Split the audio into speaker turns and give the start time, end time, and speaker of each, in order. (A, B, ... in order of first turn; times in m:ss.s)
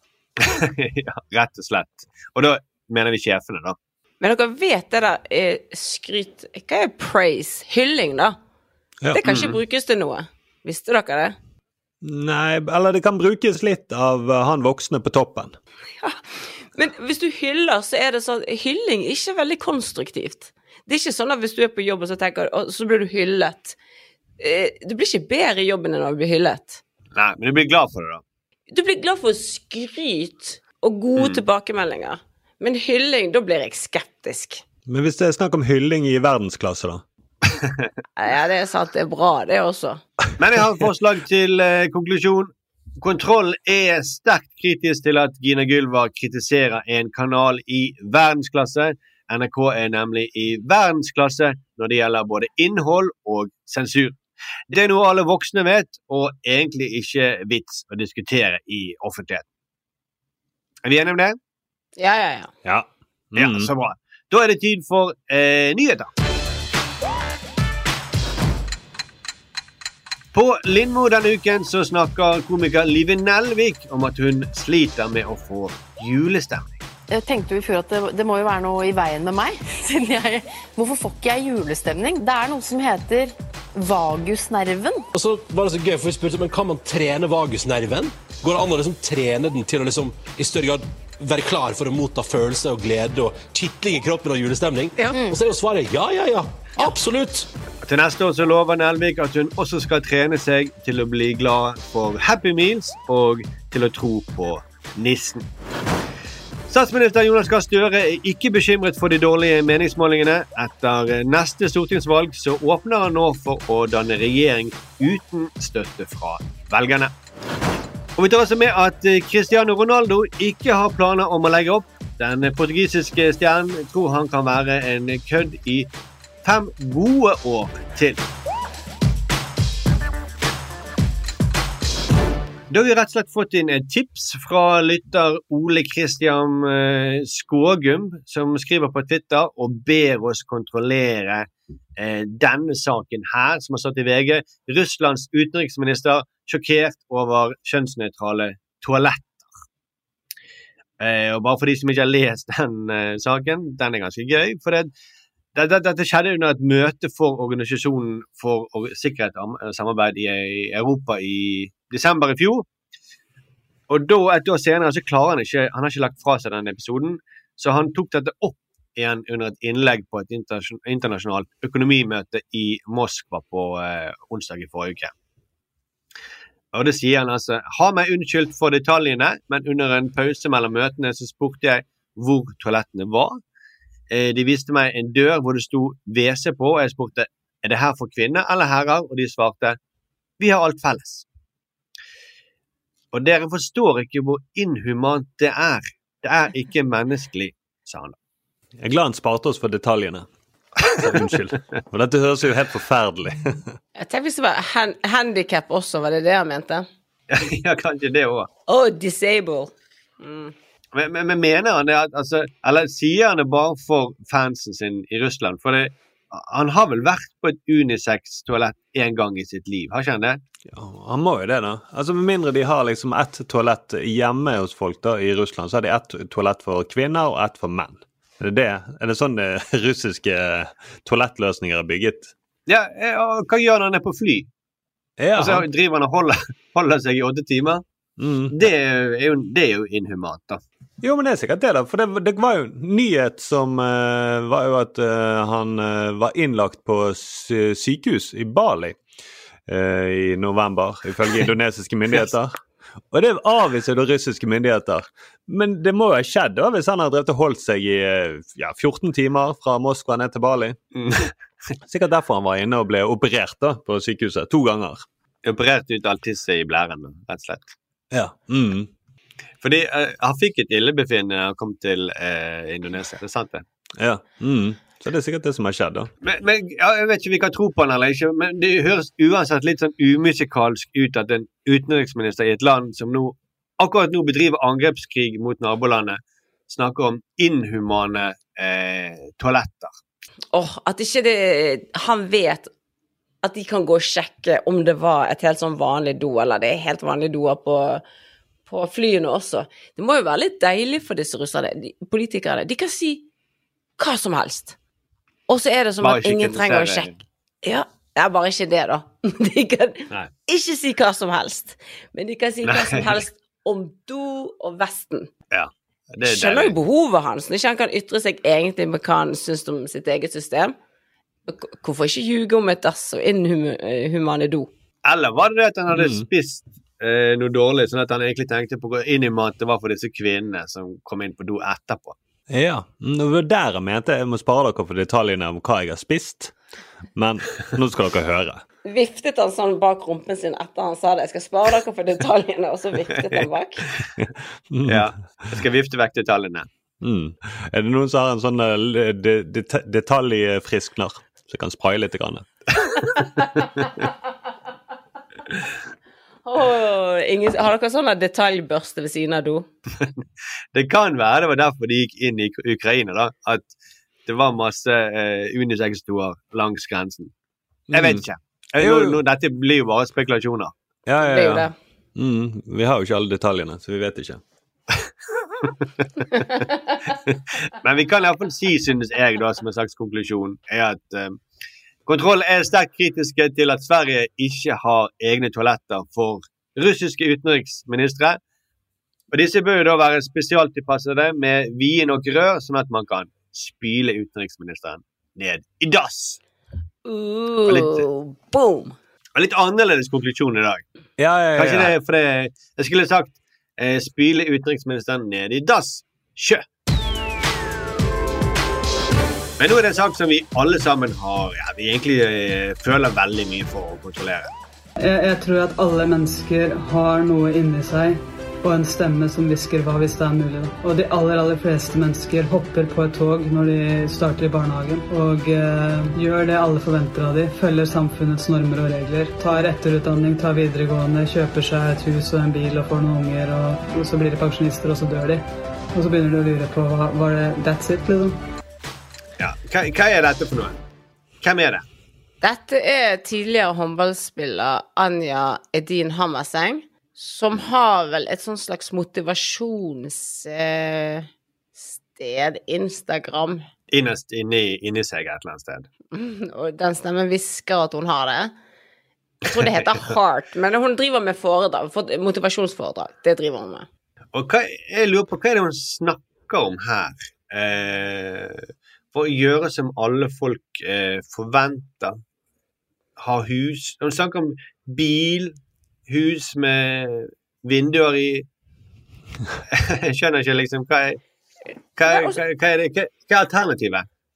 0:00.4-0:03.8 A
0:04.2-0:08.4 B
0:09.1-0:11.4 B
0:09.2-0:09.6 A
0:12.0-0:15.5 C
0:16.7-0:23.8 B
0:24.4-0:26.8 B
0:27.1-0:28.2 A
0:28.7-0:34.6 B
0:34.9-0:37.0 C
0:37.5-0:37.9 A
0:38.2-0:40.0 B
0:40.4-0:54.2 A
0:54.7-0:59.4 A
1:00.8-1:01.4 A
1:02.0-1:02.5 B
1:02.6-1:03.7 C
1:03.4-1:06.1 A
1:10.3-1:16.8 A
1:17.1-1:25.0 D
1:25.1-1:37.5 E
1:35.0-1:35.4 D
1:37.8-1:45.4 A
1:46.7-1:57.1 A
1:58.2-2:05.9 A
2:06.4-2:08.2 A
2:12.7-2:29.5 A
2:31.0-2:34.9 A
2:35.5-2:42.6 A
2:43.9-2:55.1 A
2:56.7-3:03.4 A
3:04.1-3:09.8 A
3:10.4-3:11.2 A
3:13.1-3:18.2 A
3:18.8-3:20.3 C
3:20.8-3:21.3 A
3:20.9-3:23.6 C
3:24.0-3:26.9 B
3:27.3-3:28.5 A
3:28.7-3:30.5 B
3:30.9-3:40.4 A
3:40.7-3:52.3 C
3:52.7-3:54.5 A
3:55.2-3:55.7 C
3:55.4-3:57.8 A
3:58.2-3:58.7 C
3:58.5-4:00.6 A
4:01.0-4:09.0 C
4:09.7-4:12.6 C
4:13.1-4:20.8 C
4:21.0-4:21.3 A
4:21.9-4:25.0 C
4:25.4-4:27.7 A
4:28.1-4:28.9 C
4:29.6-4:33.6 A
4:34.0-4:36.1 C
4:36.2-4:50.0 A
4:50.5-4:52.7 B
4:53.4-4:58.0 B
4:58.7-5:03.2 B
5:04.0-5:04.8 B
5:05.5-5:07.1 B
5:06.0-5:07.2 A
5:07.6-5:15.3 B
5:12.6-5:13.1 A
5:15.5-5:16.8 A
5:16.2-5:20.8 B
5:21.5-5:24.7 B
5:25.0-5:32.2 A
5:25.9-5:26.2 C
5:32.5-5:36.5 C
5:37.2-5:38.6 C
5:38.8-5:43.9 B
5:43.2-5:44.1 A
5:44.2-5:45.1 C
5:44.8-5:46.7 A
5:47.0-5:52.5 C
5:52.9-5:54.0 A
5:56.4-5:59.7 B
6:00.0-6:03.7 A
6:04.2-6:07.3 A
6:07.9-6:08.2 C
6:07.9-6:10.7 A
6:08.8-6:09.2 C
6:11.1-6:14.4 C
6:11.2-6:11.8 B
6:15.6-6:16.4 A
6:17.1-6:21.4 A
6:22.0-6:28.4 A
6:29.3-6:36.4 A
6:37.0-6:39.0 B
6:37.7-6:38.0 A
6:39.4-6:40.8 A
6:41.2-6:42.0 C
6:41.5-6:46.6 A
6:49.6-6:54.5 A
6:55.0-7:18.4 F
7:19.4-7:20.8 A
7:21.4-7:21.8 A
7:22.4-7:33.6 B
7:33.9-7:35.9 A
7:36.1-7:38.5 B
7:39.5-7:43.8 B
7:44.3-7:52.2 A
7:53.2-7:58.5 A
7:59.7-8:01.2 A
8:02.0-8:04.0 A
8:02.0-8:02.4 B